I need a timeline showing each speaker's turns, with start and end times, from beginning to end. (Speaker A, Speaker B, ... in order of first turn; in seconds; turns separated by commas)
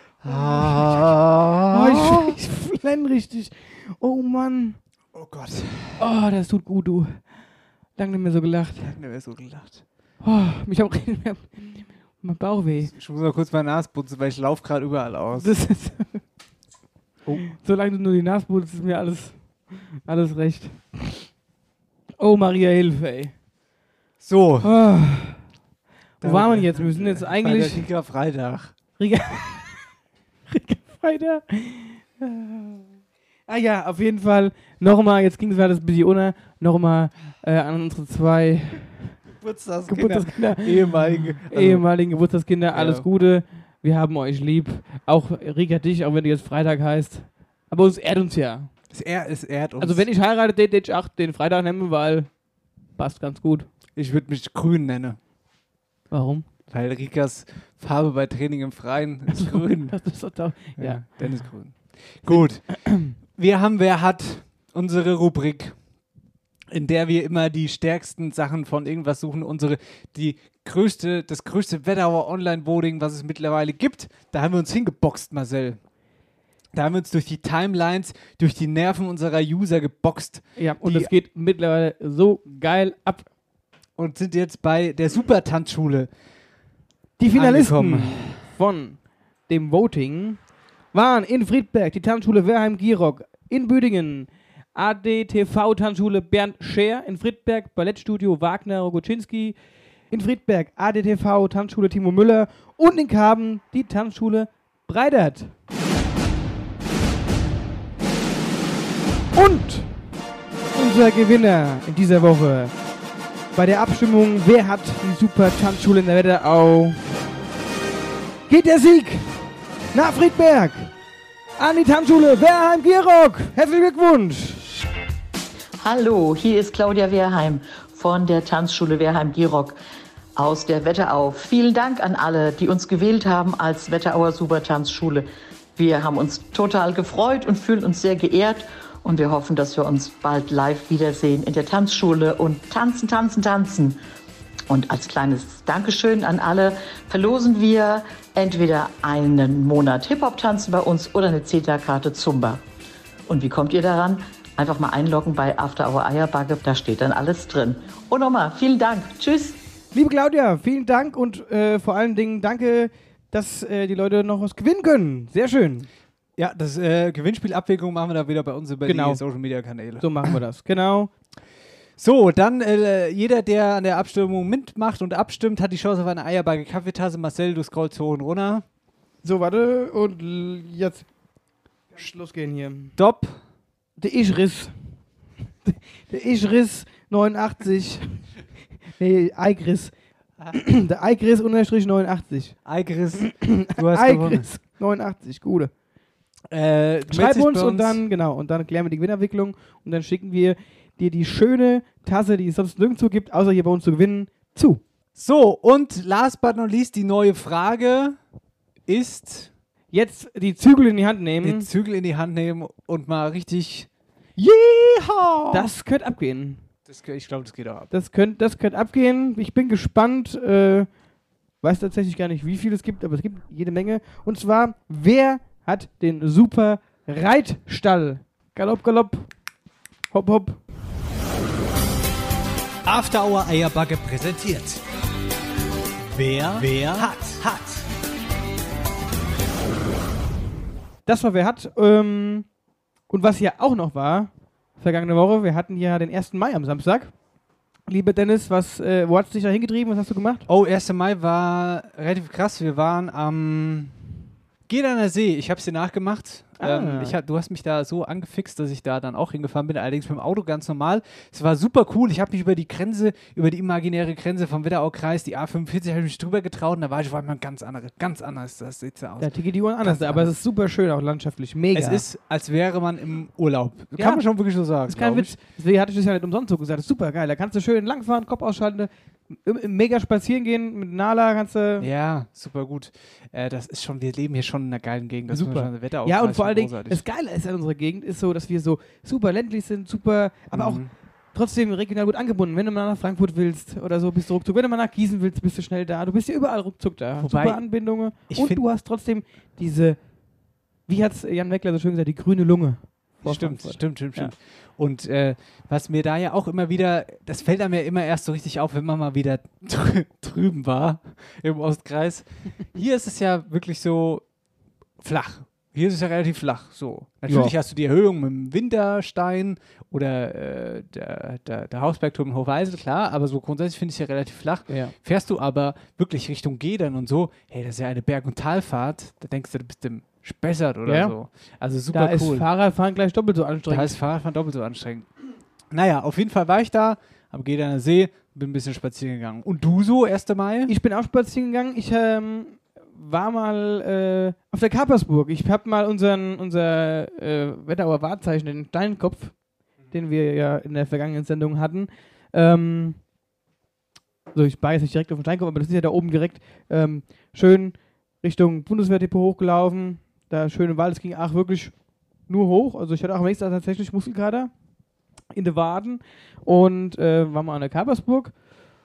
Speaker A: 0.2-2.3, Speaker B: 0.2-1.1, Speaker B: 1.7-4.8, Speaker A: 5.1-6.0, Speaker B: 6.0-7.3, Speaker B: 7.9-8.9, Speaker A: 8.8-9.8, Speaker B: 10.2-12.9, Speaker A: 12.9-15.5, Speaker B: 15.3-16.2, Speaker B: 17.2-21.2, Speaker B: 22.2-23.4, Speaker A: 24.2-24.7, Speaker B: 24.6-25.4, Speaker B: 26.2-27.9, Speaker A: 26.2-28.7, Speaker B: 29.0-29.8, Speaker B: 30.5-32.8, Speaker B: 33.5-39.2, Speaker A: 39.4-41.9, Speaker B: 39.9-48.7, Speaker A: 42.7-43.1, Speaker A: 48.9-50.1, Speaker B: 49.8-53.7, Speaker A: 54.0-55.2, Speaker B: 56.1-56.5, Speaker A: 56.7-60.1, Speaker B: 59.3-63.1, Speaker A: 60.8-65.8, Speaker A: 66.7-75.8, Speaker A: 76.7-81.1, Speaker B: 80.5-83.3, Speaker A: 84.0-86.1, Speaker B: 87.2-99.6, Speaker A: 87.3-88.4, Speaker B: 100.1-105.5, Speaker B: 109.3-110.1, Speaker B: 110.7-112.7, Speaker B: 113.5-117.0, Speaker B: 118.5-119.4, Speaker B: 119.9-120.9, Speaker B: 121.6-124.6, Speaker C: 125.8-129.8, Speaker C: 130.3-144.0, Speaker C: 144.7-152.6, Speaker C: 153.3-159.6, Speaker B: 159.9-165.9, Speaker A: 166.4-170.3, Speaker B: 168.8-169.2, Speaker B: 170.0-171.1, Speaker A: 172.0-178.6, Speaker B: 179.2-181.1, Speaker B: 181.9-182.9, Speaker A: 182.9-183.4, Speaker B: 184.0-184.7, Speaker B: 185.6-188.2, Speaker B: 189.0-189.9, Speaker B: 190.5-192.6, Speaker A: 192.6-194.5, Speaker B: 193.3-195.7, Speaker A: 196.5-198.0, Speaker B: 197.1-204.8, Speaker A: 205.1-208.2, Speaker A: 208.9-209.5, Speaker B: 209.9-211.7, Speaker A: 211.4-215.7, Speaker B: 215.5-216.6, Speaker A: 216.8-217.9, Speaker B: 217.9-220.9, Speaker B: 221.6-229.3, Speaker B: 230.1-230.6, Speaker D: 232.9-234.8, Speaker D: 236.1-237.8, Speaker B: 241.1-242.5, Speaker B: 243.1-247.1, Speaker B: 247.9-250.4, Speaker A: 250.5-254.0, Speaker A: 254.7-270.3, Speaker B: 256.6-257.1, Speaker B: 269.2-272.0, Speaker A: 271.7-275.3, Speaker B: 274.0-281.9, Speaker A: 281.8-287.0, Speaker B: 285.3-300.1, Speaker A: 290.5-290.9, Speaker A: 297.2-298.6, Speaker B: 300.9-304.3, Speaker A: 303.2-314.2, Speaker A: 315.0-332.5, Speaker B: 317.3-317.5, Speaker B: 324.7-324.9, Speaker B: 330.8-331.1, Speaker B: 331.9-334.0, Speaker A: 333.7-335.1, Speaker A: 335.7-340.7, Speaker B: 340.7-353.0, Speaker B: 354.3-361.7, Speaker B: 362.3-364.5, Speaker B: 365.3-368.3